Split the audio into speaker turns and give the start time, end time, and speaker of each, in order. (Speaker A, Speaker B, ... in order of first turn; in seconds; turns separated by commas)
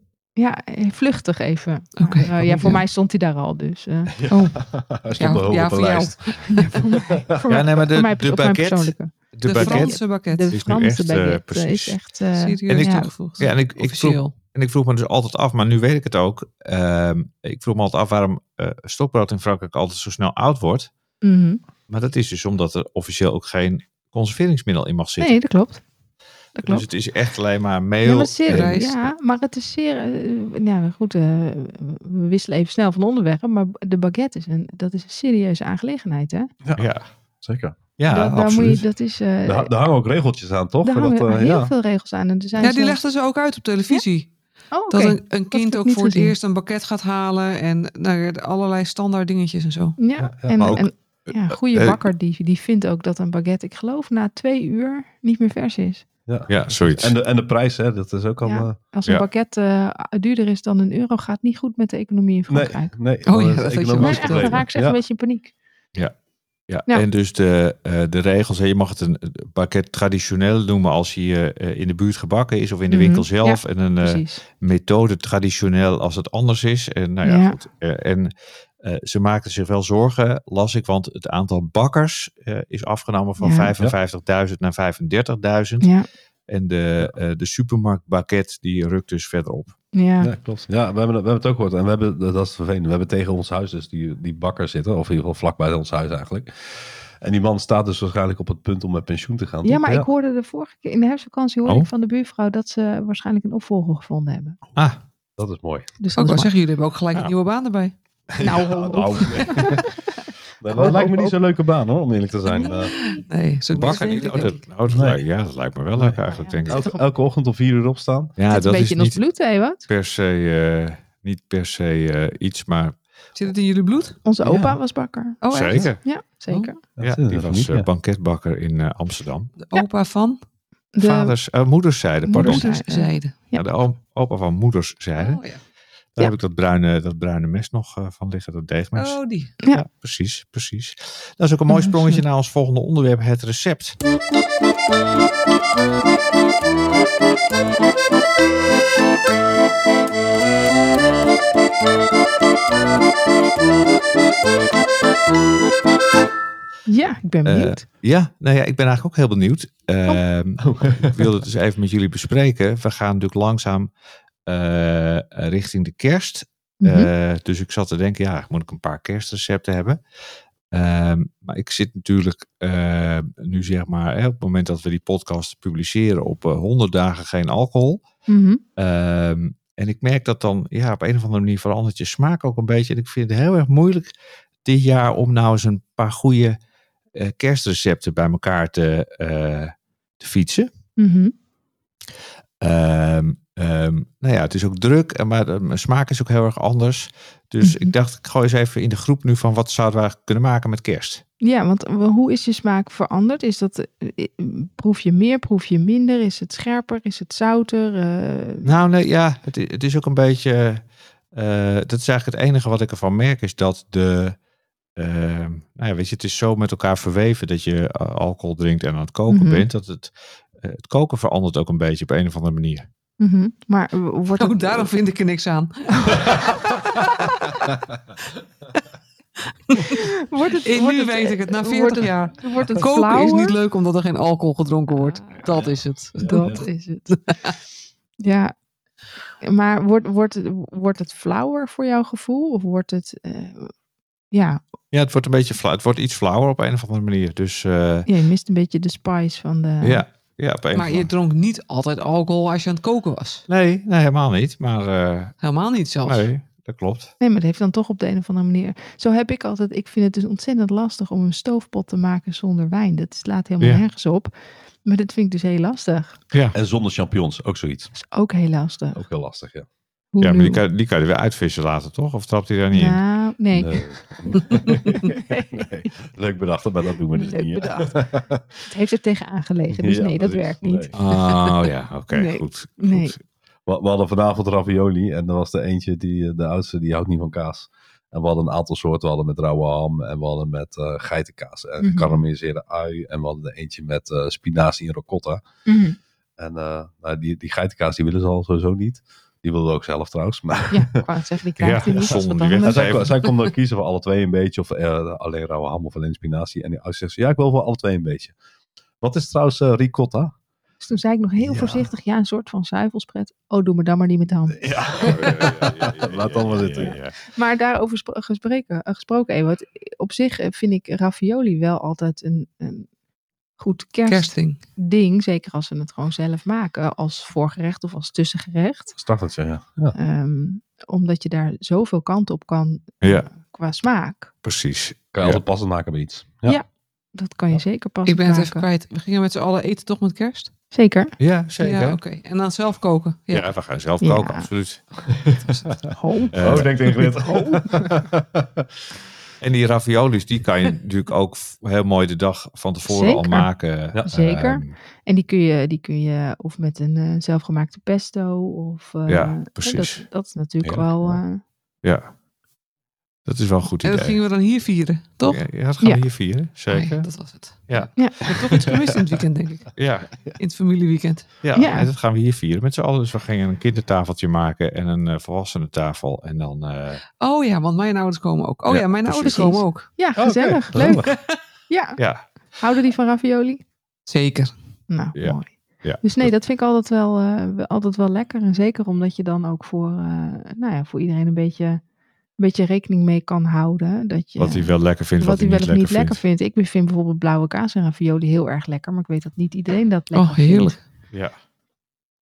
Speaker A: 0.4-4.2, Speaker B: 2.0-2.8, Speaker C: 4.1-7.3, Speaker B: 4.3-4.6, Speaker B: 5.2-6.8, Speaker A: 6.5-13.1, Speaker D: 7.5-12.0, Speaker B: 9.5-10.5, Speaker B: 12.4-14.3, Speaker D: 12.7-20.9, Speaker A: 21.2-21.6, Speaker D: 21.9-25.4, Speaker A: 25.2-25.8, Speaker A: 26.6-26.9, Speaker D: 26.6-28.8, Speaker A: 28.1-36.5, Speaker B: 28.4-29.1, Speaker D: 36.8-37.1, Speaker C: 37.4-37.8, Speaker D: 38.0-38.9, Speaker A: 38.1-39.7, Speaker C: 39.5-41.7, Speaker A: 40.9-43.0, Speaker B: 42.6-44.3, Speaker A: 44.7-46.4, Speaker B: 44.9-50.0, Speaker A: 50.0-56.1, Speaker C: 50.2-50.8, Speaker D: 50.6-52.0, Speaker C: 56.3-58.8, Speaker D: 56.5-57.2, Speaker A: 58.4-62.9, Speaker C: 62.5-65.0, Speaker B: 63.3-64.6, Speaker A: 64.0-65.5, Speaker D: 66.7-85.9, Speaker A: 72.9-74.4, Speaker A: 77.2-77.6, Speaker A: 83.4-83.7, Speaker A: 85.8-86.1, Speaker D: 86.5-89.8, Speaker A: 89.9-90.3, Speaker C: 90.2-100.1, Speaker A: 99.6-104.6, Speaker D: 104.8-105.0, Speaker C: 105.4-105.9, Speaker A: 106.0-106.5, Speaker B: 106.2-108.0, Speaker C: 108.3-110.0, Speaker A: 108.4-111.4, Speaker C: 110.6-112.9, Speaker A: 112.5-113.2, Speaker B: 112.7-114.6, Speaker D: 113.7-116.9, Speaker A: 113.8-114.6, Speaker C: 114.9-115.2, Speaker C: 116.0-118.4, Speaker A: 116.3-117.0, Speaker D: 118.4-119.2, Speaker A: 118.5-119.8, Speaker D: 119.9-123.0, Speaker B: 123.3-124.2, Speaker A: 124.2-126.8, Speaker C: 124.4-124.8, Speaker B: 125.4-126.7, Speaker D: 125.5-126.0, Speaker C: 127.0-127.9, Speaker D: 127.0-129.5, Speaker B: 129.6-130.4, Speaker A: 130.9-131.3, Speaker D: 131.0-132.7, Speaker A: 132.3-133.7, Speaker B: 132.3-133.3, Speaker D: 133.5-135.4, Speaker B: 135.2-135.6, Speaker D: 136.2-144.0, Speaker B: 139.0-139.5, Speaker A: 141.7-142.2, Speaker A: 156.9-157.8, Speaker D: 157.4-163.9, Speaker C: 160.6-161.2, Speaker D: 164.5-170.0, Speaker A: 166.8-167.1, Speaker D: 170.7-178.1, Speaker A: 178.3-178.6, Speaker D: 178.8-184.1, Speaker D: 184.6-186.6, Speaker D: 187.2-190.7, Speaker A: 191.0-191.3, Speaker D: 192.6-201.2, Speaker A: 197.6-197.9, Speaker A: 201.4-208.7, Speaker D: 208.6-214.4, Speaker D: 215.0-222.9, Speaker A: 219.3-219.7, Speaker A: 223.2-224.9, Speaker B: 224.4-227.5, Speaker C: 226.3-226.6, Speaker B: 229.7-230.1, Speaker A: 229.8-233.6, Speaker B: 230.6-236.6, Speaker A: 234.9-235.5, Speaker C: 235.5-236.6, Speaker A: 236.2-237.2, Speaker B: 237.1-237.5, Speaker A: 238.2-238.5, Speaker A: 239.4-243.7, Speaker A: 244.3-244.6, Speaker D: 244.9-248.1, Speaker A: 248.1-250.0, Speaker D: 249.8-251.1, Speaker B: 250.7-253.4, Speaker D: 253.5-255.3, Speaker B: 255.4-256.3, Speaker D: 256.0-257.1, Speaker A: 257.2-266.2, Speaker C: 266.5-267.9, Speaker A: 268.0-269.0, Speaker C: 268.9-269.7, Speaker A: 270.1-270.6, Speaker D: 270.2-273.0, Speaker A: 272.7-275.9, Speaker C: 273.5-278.7, Speaker A: 277.1-278.1, Speaker A: 278.7-280.9, Speaker C: 279.7-280.9, Speaker D: 280.9-283.2, Speaker A: 282.1-283.1, Speaker C: 283.7-295.4, Speaker A: 291.8-292.2, Speaker A: 295.7-296.0, Speaker C: 296.4-300.9, Speaker A: 300.7-303.0, Speaker D: 301.6-303.2, Speaker C: 301.9-308.4, Speaker C: 309.0-310.3, Speaker A: 310.8-315.5, Speaker C: 311.4-311.9, Speaker C: 314.6-317.0, Speaker D: 315.0-317.2, Speaker A: 316.8-322.9, Speaker A: 323.6-328.9, Speaker B: 324.1-324.6, Speaker C: 329.0-329.9, Speaker A: 329.9-334.3, Speaker D: 333.0-333.3, Speaker D: 334.4-335.4, Speaker C: 335.1-336.6, Speaker A: 336.5-338.6, Speaker B: 338.1-340.5, Speaker A: 340.7-341.1, Speaker D: 341.2-342.0, Speaker B: 341.6-343.5, Speaker D: 343.3-344.8, Speaker A: 344.0-344.5, Speaker C: 345.2-345.4, Speaker A: 345.9-347.9, Speaker D: 346.3-346.7, Speaker C: 346.4-348.7, Speaker D: 349.4-354.8, Speaker A: 352.9-353.5, Speaker A: 354.1-361.4, Speaker D: 359.1-360.1, Speaker C: 360.6-361.2, Speaker D: 361.8-362.1, Speaker D: 363.2-364.2, Speaker B: 363.8-365.4, Speaker D: 365.2-367.1, Speaker B: 366.7-371.4, Speaker D: 367.7-368.1, Speaker A: 368.0-368.2, Speaker D: 369.8-370.1, Speaker D: 371.4-377.0, Speaker A: 371.6-371.9, Speaker B: 377.2-379.9, Speaker D: 378.7-379.6, Speaker A: 380.0-381.1, Speaker C: 380.2-381.2, Speaker B: 380.8-381.4, Speaker A: 381.7-382.0, Speaker D: 382.0-382.2, Speaker A: 382.6-383.6, Speaker B: 384.1-384.5, Speaker A: 384.9-391.8, Speaker D: 385.1-386.3, Speaker A: 392.4-400.8, Speaker D: 394.4-396.2, Speaker B: 400.1-400.8